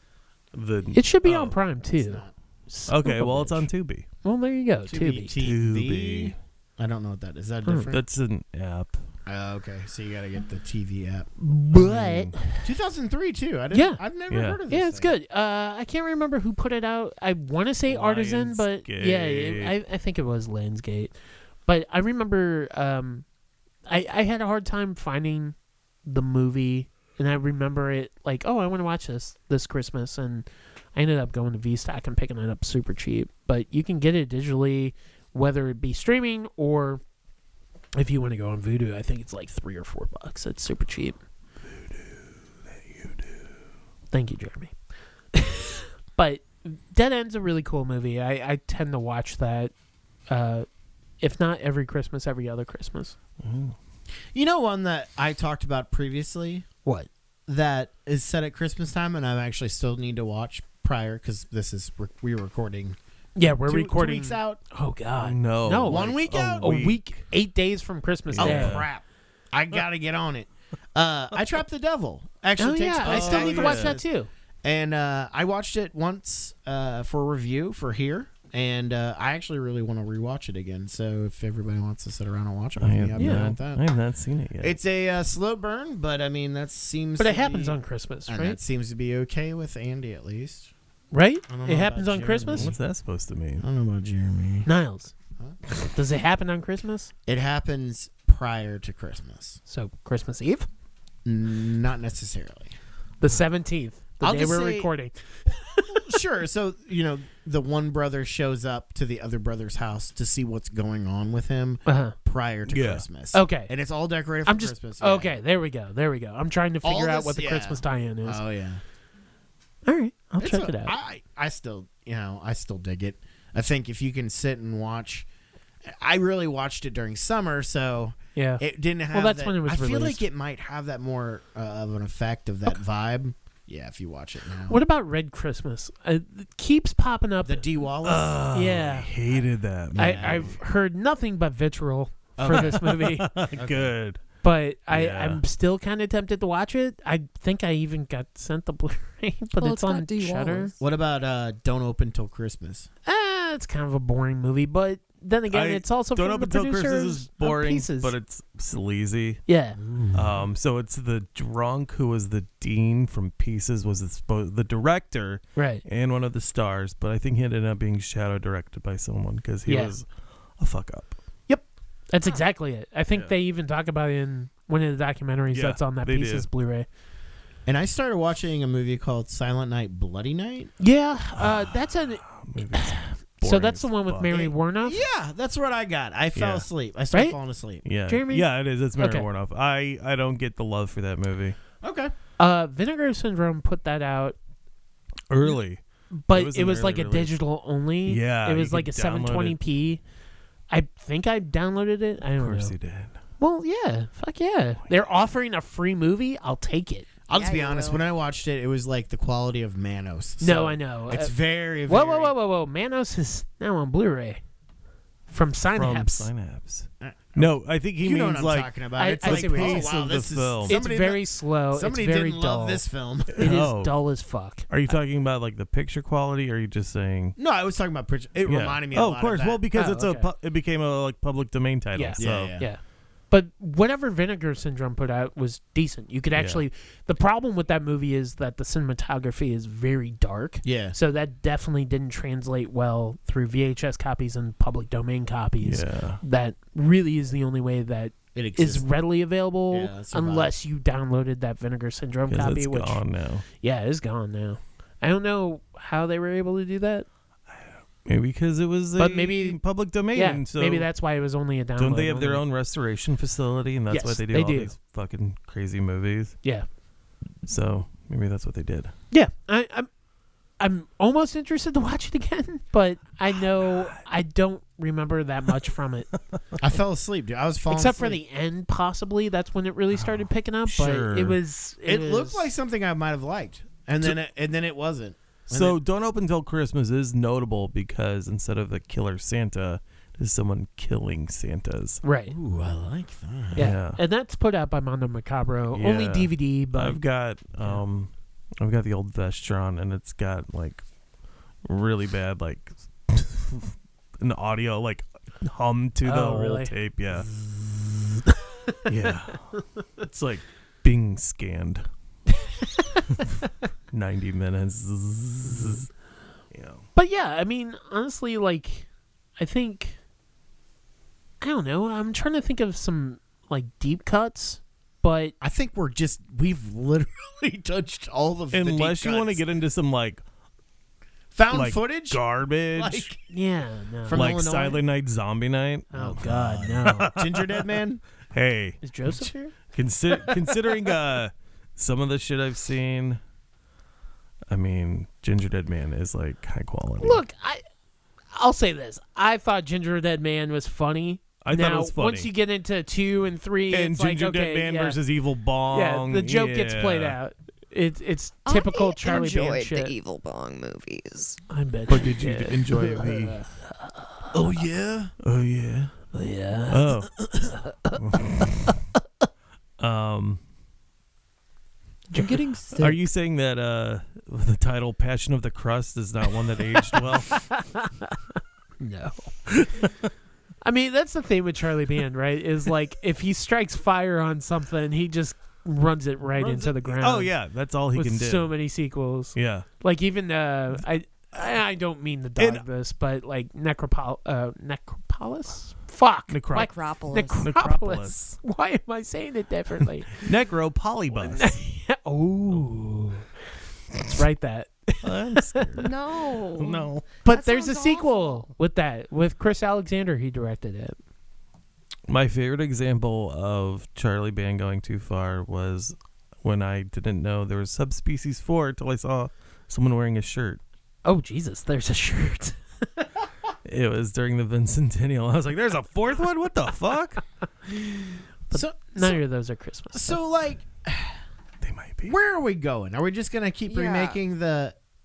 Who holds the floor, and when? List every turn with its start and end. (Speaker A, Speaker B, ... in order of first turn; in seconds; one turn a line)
Speaker A: 0.5-1.6
Speaker B: 0.9-3.7
Speaker C: 2.0-2.3
Speaker A: 2.9-4.1
Speaker B: 4.2-5.3
Speaker C: 4.9-8.0
Speaker A: 5.4-6.4
Speaker B: 7.7-7.9
Speaker A: 7.9-9.0
Speaker C: 9.3-11.3
Speaker B: 11.4-12.7
Speaker A: 11.7-12.4
Speaker C: 12.6-15.1
Speaker B: 13.7-14.0
Speaker A: 14.3-14.6
Speaker B: 14.7-21.1
Speaker A: 17.9-19.7
Speaker B: 21.7-23.2
Speaker B: 23.9-37.0
Speaker B: 38.0-41.2
Speaker B: 44.1-44.7
Speaker B: 45.3-49.7
Speaker B: 50.3-50.7
Speaker B: 51.2-53.1
Speaker A: 53.4-53.8
Speaker C: 54.3-56.7
Speaker C: 57.5-63.0
Speaker B: 63.4-68.8
Speaker C: 63.6-64.6
Speaker A: 65.2-67.0
Speaker C: 65.8-66.9
Speaker A: 68.3-68.9
Speaker C: 68.4-74.1
Speaker B: 72.6-74.3
Speaker A: 73.0-74.0
Speaker C: 74.6-83.8
Speaker A: 82.8-84.8
Speaker B: 83.2-83.5
Speaker C: 84.6-90.7
Speaker B: 87.2-88.6
Speaker B: 91.1-92.7
Speaker C: 91.5-92.8
Speaker A: 92.5-93.7
Speaker C: 93.6-94.7
Speaker B: 94.7-95.1
Speaker B: 95.8-97.1
Speaker C: 97.3-99.6
Speaker B: 99.7-100.7
Speaker C: 101.2-102.7
Speaker B: 103.2-106.1
Speaker C: 104.2-104.9
Speaker C: 105.9-115.4
Speaker B: 111.9-112.2
Speaker A: 112.7-113.0
Speaker B: 113.3-113.7
Speaker B: 114.5-118.4
Speaker C: 116.8-118.8
Speaker B: 119.8-121.0
Speaker C: 120.4-125.3
Speaker C: 125.8-134.8
Speaker B: 128.3-130.2
Speaker B: 134.7-137.7
Speaker C: 137.4-138.5
Speaker A: 138.0-140.5
Speaker B: 138.5-139.1
Speaker C: 139.3-140.6
Speaker B: 140.0-143.3
Speaker C: 142.4-142.9
Speaker A: 142.5-144.2
Speaker C: 143.5-143.9
Speaker B: 144.4-150.8
Speaker A: 144.9-145.4
Speaker D: 149.6-150.8
Speaker C: 150.8-152.9
Speaker B: 153.1-158.2
Speaker A: 155.5-159.4
Speaker B: 159.5-159.8
Speaker C: 159.8-160.5
Speaker A: 160.1-170.1
Speaker B: 165.6-165.8
Speaker B: 169.7-169.9
Speaker A: 170.6-171.2
Speaker B: 171.5-176.9
Speaker A: 175.5-176.5
Speaker C: 177.7-180.7
Speaker B: 180.8-185.0
Speaker A: 181.4-184.4
Speaker C: 184.3-187.8
Speaker A: 186.3-186.7
Speaker A: 187.8-191.6
Speaker B: 188.1-188.5
Speaker B: 189.0-189.3
Speaker C: 191.8-192.1
Speaker B: 192.4-194.4
Speaker A: 195.3-197.3
Speaker B: 196.1-200.0
Speaker A: 198.1-199.6
Speaker B: 200.7-202.7
Speaker A: 202.4-203.2
Speaker B: 203.4-207.1
Speaker C: 207.3-212.3
Speaker D: 207.3-208.1
Speaker B: 210.4-211.3
Speaker B: 211.9-214.4
Speaker B: 215.3-216.3
Speaker A: 215.8-220.8
Speaker C: 217.0-223.6
Speaker B: 219.0-219.9
Speaker B: 220.7-222.8
Speaker A: 223.3-223.9
Speaker B: 223.4-224.9
Speaker A: 224.7-227.4
Speaker C: 227.4-229.6
Speaker A: 228.4-232.6
Speaker B: 229.8-230.3
Speaker B: 231.9-257.1
Speaker C: 232.2-232.7
Speaker A: 236.3-236.7
Speaker C: 240.6-241.0
Speaker A: 245.6-246.2
Speaker C: 248.3-248.9
Speaker C: 249.7-250.5
Speaker A: 252.3-253.4
Speaker A: 257.5-260.9
Speaker B: 259.0-259.6
Speaker B: 260.1-262.4
Speaker A: 261.8-266.4
Speaker B: 263.9-264.7
Speaker A: 267.4-268.9
Speaker B: 269.1-269.9
Speaker B: 270.6-276.1
Speaker A: 273.6-274.0
Speaker C: 276.6-278.2
Speaker B: 277.7-282.5
Speaker A: 280.0-281.4
Speaker C: 281.9-285.8
Speaker A: 285.5-292.0
Speaker B: 292.0-292.3
Speaker C: 292.3-293.7
Speaker B: 293.6-297.0
Speaker A: 293.6-294.0
Speaker A: 295.7-300.8
Speaker A: 301.6-307.3
Speaker B: 306.0-306.7
Speaker A: 308.9-311.9
Speaker B: 312.4-313.2
Speaker A: 313.9-315.9
Speaker A: 316.5-316.9
Speaker B: 317.0-318.9
Speaker B: 319.4-320.0
Speaker B: 321.4-325.4
Speaker C: 325.4-329.4
Speaker A: 328.5-330.2
Speaker C: 331.3-332.2
Speaker A: 331.5-333.1
Speaker C: 332.8-333.2
Speaker B: 333.3-334.2
Speaker C: 334.1-334.8
Speaker A: 334.1-336.2
Speaker B: 335.9-337.1
Speaker C: 336.1-338.0
Speaker A: 336.8-337.7
Speaker A: 338.3-338.8
Speaker B: 338.8-339.5
Speaker A: 339.7-343.2
Speaker A: 344.5-347.2
Speaker B: 347.0-347.6
Speaker B: 348.3-355.0
Speaker A: 351.4-352.3
Speaker A: 353.7-357.2
Speaker B: 355.7-359.9
Speaker D: 358.5-361.4
Speaker B: 361.5-364.2
Speaker A: 361.9-363.4
Speaker C: 364.3-365.1
Speaker A: 365.2-366.0
Speaker B: 366.1-368.7
Speaker A: 366.7-367.3
Speaker A: 368.0-368.8
Speaker A: 369.8-370.4
Speaker D: 372.1-372.9
Speaker B: 372.1-372.9
Speaker A: 372.8-377.4
Speaker B: 377.0-379.5
Speaker A: 379.5-379.9
Speaker B: 380.6-387.3
Speaker A: 386.4-388.5
Speaker B: 387.9-400.3
Speaker A: 389.4-389.7
Speaker A: 392.4-392.6
Speaker A: 396.3-396.7
Speaker D: 396.5-397.4
Speaker A: 397.4-398.3
Speaker A: 400.2-401.6
Speaker B: 401.1-403.3
Speaker B: 404.0-405.8
Speaker A: 405.0-407.1
Speaker D: 405.8-408.5
Speaker B: 407.2-411.0
Speaker A: 412.1-420.6
Speaker B: 421.1-423.1
Speaker A: 423.6-427.2
Speaker B: 427.7-430.2
Speaker C: 428.5-429.2
Speaker C: 429.9-431.2
Speaker A: 431.6-432.1
Speaker C: 432.0-434.8
Speaker D: 433.7-434.2